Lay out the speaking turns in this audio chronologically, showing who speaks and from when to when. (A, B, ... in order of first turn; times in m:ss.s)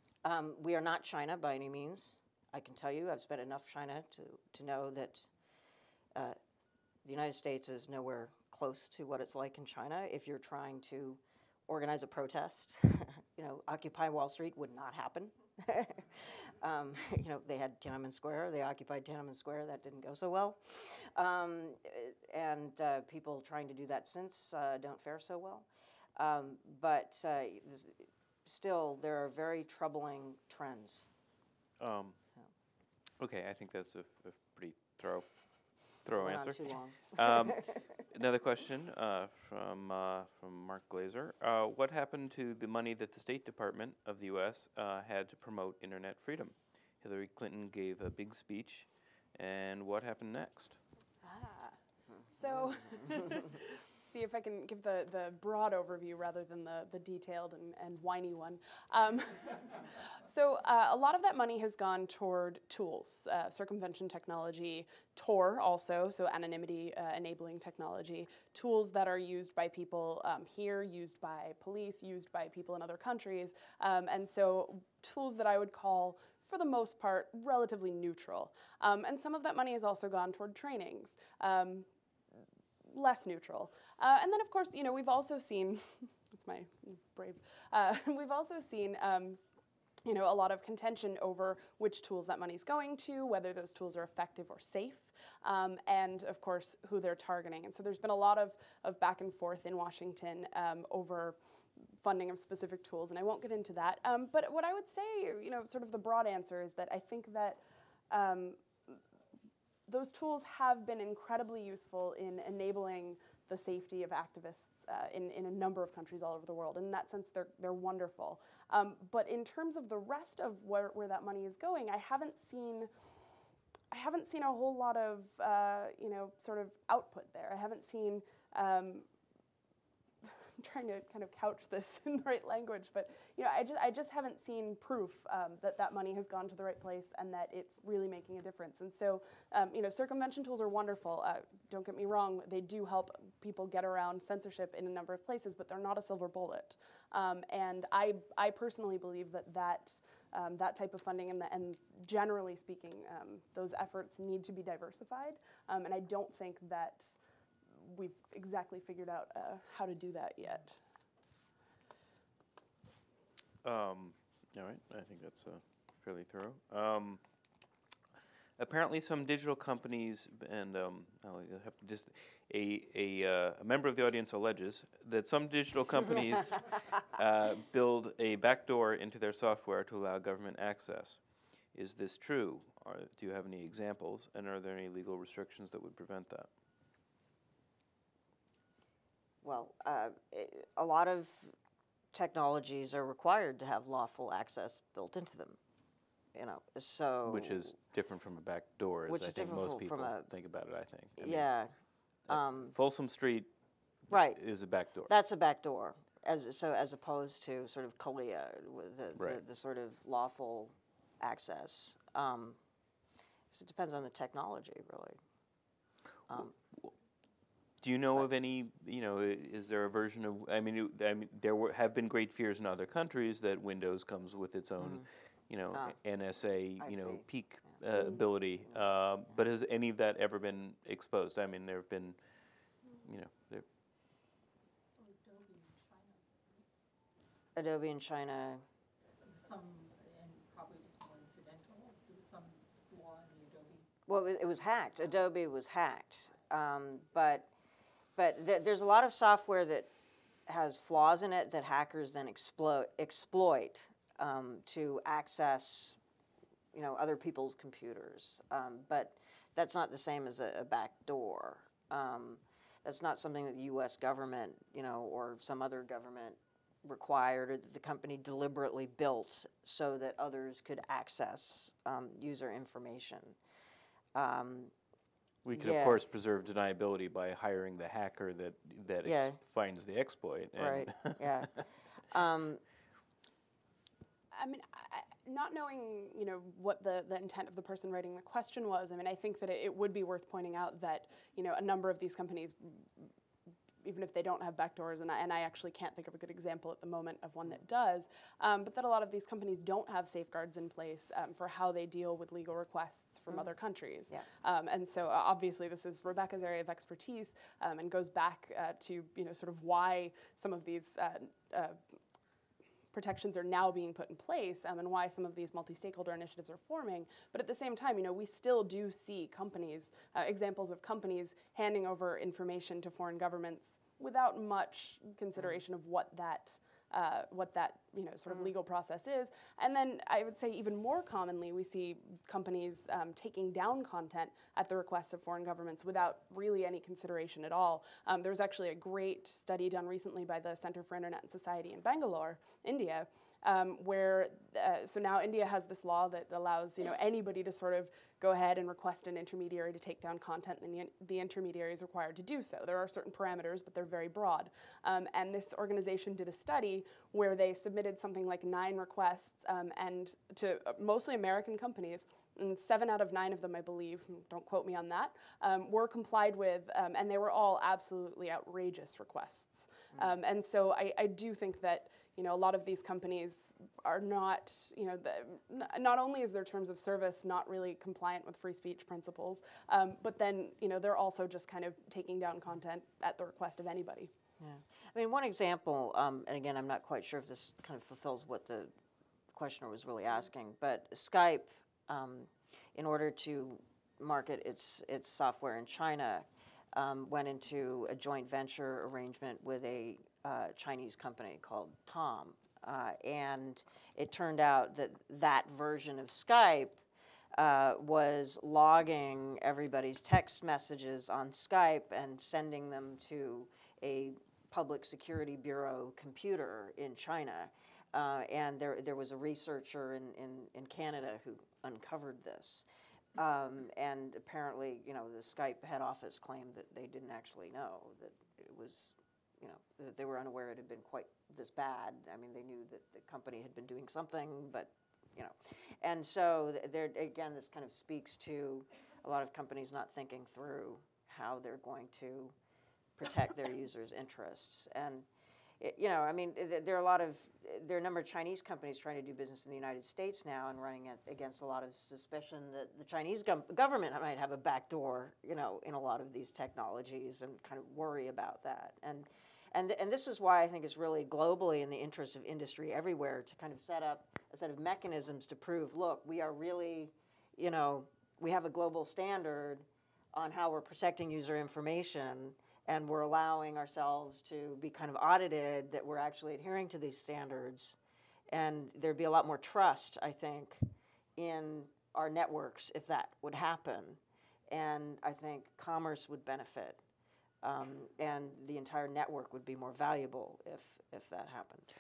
0:00.2-0:05.3 A
0:07.0-0:31.1 A
0:31.8-0:32.2 B
0:33.2-0:35.3 B
0:36.0-0:50.8 B
0:36.2-0:37.8 A
0:51.2-0:51.8 C
0:52.3-1:21.9 C
1:22.8-1:29.4 C
1:30.0-1:47.6 C
1:48.1-1:49.0 C
1:49.9-2:02.9 C
2:03.9-2:09.1 C
2:10.2-2:37.2 C
2:37.7-2:40.8 C
2:43.6-2:47.2 B
2:48.6-3:01.2 B
3:01.7-3:06.5 B
3:09.4-3:11.5 A
3:12.1-3:15.6 A
3:16.3-3:17.7 A
3:17.3-3:21.5 B
3:19.1-3:20.3 A
3:21.2-3:21.7 A
3:22.3-3:22.7 A
3:22.3-3:23.5 B
3:24.1-3:25.1 B
3:24.1-3:24.4 A
3:25.1-3:32.6 A
3:29.2-3:29.4 B
3:33.5-3:35.2 A
3:36.3-3:36.6 A
3:36.4-3:36.9 B
3:37.8-3:52.2 B
3:44.8-3:45.1 A
3:46.8-3:47.8 A
3:52.9-3:53.7 B
3:55.0-3:56.6 D
3:57.6-3:58.6 A
3:59.2-4:04.0 D
4:04.1-4:07.5 A
4:08.2-4:09.9 A
4:10.5-4:16.0 A
4:16.7-4:33.4 A
4:34.2-4:34.7 A
4:35.4-4:41.6 B
4:35.6-4:36.0 A
4:39.0-4:39.4 A
4:40.6-4:42.6 A
4:44.3-4:53.1 C
4:53.8-5:11.8 C
5:12.9-6:24.1 C
6:24.4-6:28.7 A
6:29.4-6:46.8 A
6:47.4-7:22.3 A
7:23.0-7:25.1 A
7:25.6-7:57.8 A
7:58.3-8:00.6 A
8:01.2-8:06.8 A
8:07.4-8:11.7 A